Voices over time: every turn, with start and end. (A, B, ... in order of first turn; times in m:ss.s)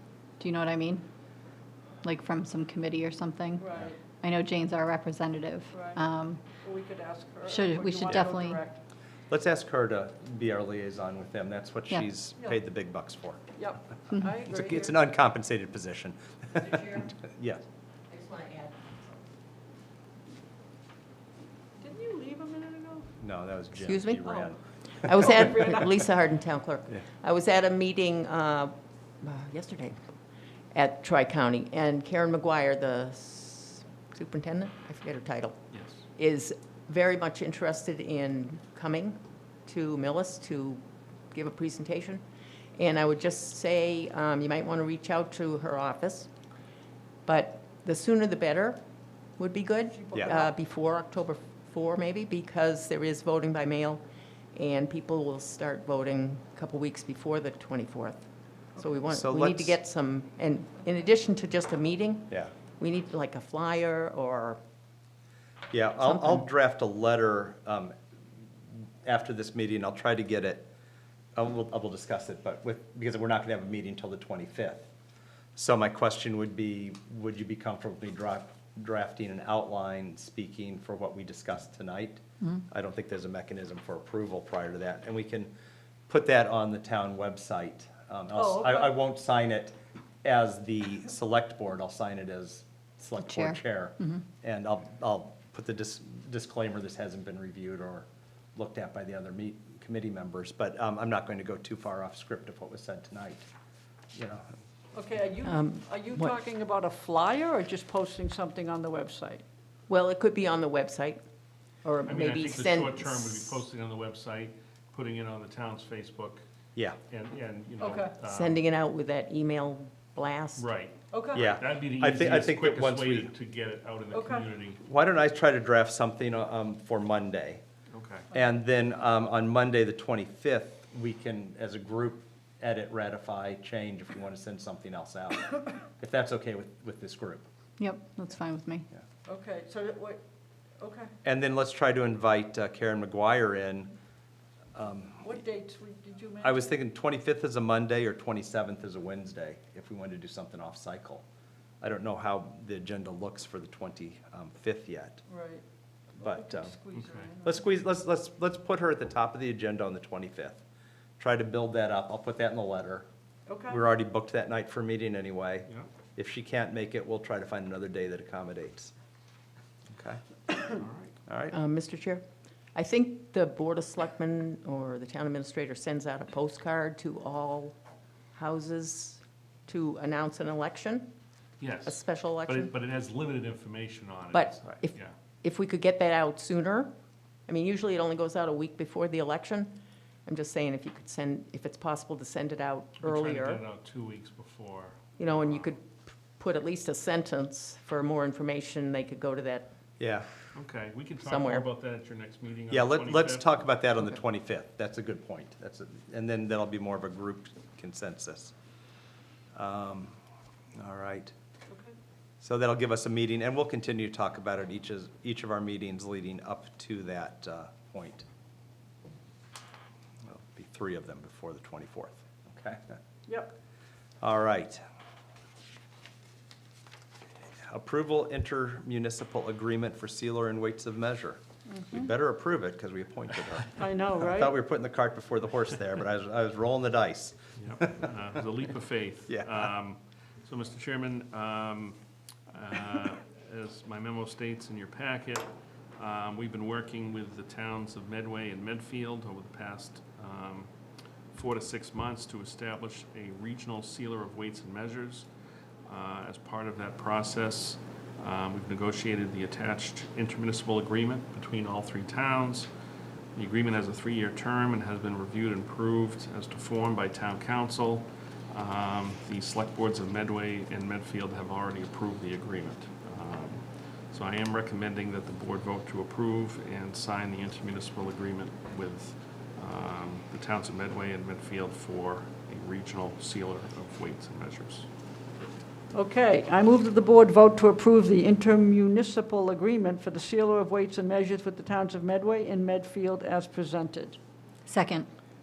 0:00.4-0:01.0 A
0:02.0-0:06.4 A
0:03.6-0:04.0 B
0:05.7-0:06.0 B
0:06.6-0:08.8 B
0:07.5-0:08.6 A
0:08.1-0:08.3 C
0:09.3-0:13.4 C
0:13.5-0:15.0 B
0:14.4-0:17.6 C
0:18.1-0:19.0 D
0:21.8-0:23.0 B
0:23.2-0:24.6 C
0:23.8-0:24.3 D
0:25.0-0:29.9 D
0:30.7-0:35.6 D
0:35.7-0:36.0 E
0:36.1-0:42.2 D
0:42.8-0:46.3 D
0:47.2-0:48.8 D
0:49.4-0:54.0 D
0:50.0-0:50.4 B
0:54.5-0:58.2 D
0:58.8-1:04.6 D
0:59.1-0:59.8 C
1:02.3-1:02.5 C
1:05.7-1:07.9 C
1:06.0-1:06.4 D
1:09.0-1:10.7 C
1:11.3-1:14.9 C
1:15.5-1:25.5 C
1:26.1-1:43.4 C
1:28.4-1:28.8 B
1:33.2-1:34.2 A
1:44.1-1:44.5 C
1:44.9-1:49.4 B
1:45.4-1:46.4 D
1:49.9-1:51.2 D
1:51.8-1:53.5 D
1:52.0-1:56.4 E
1:57.1-1:58.6 E
1:57.8-1:58.1 B
1:58.2-2:00.6 D
2:00.6-2:04.8 E
2:01.1-2:01.4 B
2:01.3-2:03.3 C
2:04.1-2:04.5 B
2:04.8-2:07.6 C
2:07.9-2:08.3 E
2:08.3-2:17.4 C
2:17.8-2:18.8 A
2:19.2-2:20.2 B
2:20.8-2:21.1 B
2:21.2-2:23.9 C
2:24.7-2:25.2 C
2:25.3-2:26.7 B
2:26.4-2:31.2 C
2:31.8-2:35.2 C
2:35.3-2:35.6 B
2:36.2-2:36.8 C
2:36.2-2:37.6 B
2:36.9-2:37.3 E
2:37.4-2:40.6 C
2:41.2-2:43.1 C
2:43.5-2:43.8 B
2:43.7-2:48.9 C
2:49.9-2:50.2 C
2:50.7-2:51.2 E
2:51.2-2:51.5 C
2:51.5-2:57.7 D
2:58.3-3:01.1 D
3:01.6-3:05.1 E
3:01.8-3:02.7 D
3:04.3-3:06.9 D
3:07.5-3:13.6 D
3:13.0-3:15.7 E
3:15.2-3:19.7 D
3:20.0-3:20.3 C
3:20.5-3:23.7 E
3:21.2-3:21.6 D
3:22.7-3:28.5 C
3:29.5-3:30.1 C
3:30.8-3:31.3 C
3:32.4-3:38.2 C
3:40.2-3:42.8 C
3:43.3-3:43.5 B
3:44.2-3:44.8 C
3:47.6-3:58.0 C
3:51.7-3:52.1 B
3:53.8-3:54.5 B
3:57.6-4:02.0 E
3:59.3-3:59.7 C
4:02.5-4:10.7 E
4:11.3-4:15.3 E
4:15.8-4:22.7 E
4:23.3-4:44.9 E
4:45.9-4:54.2 B
4:54.6-4:55.1 A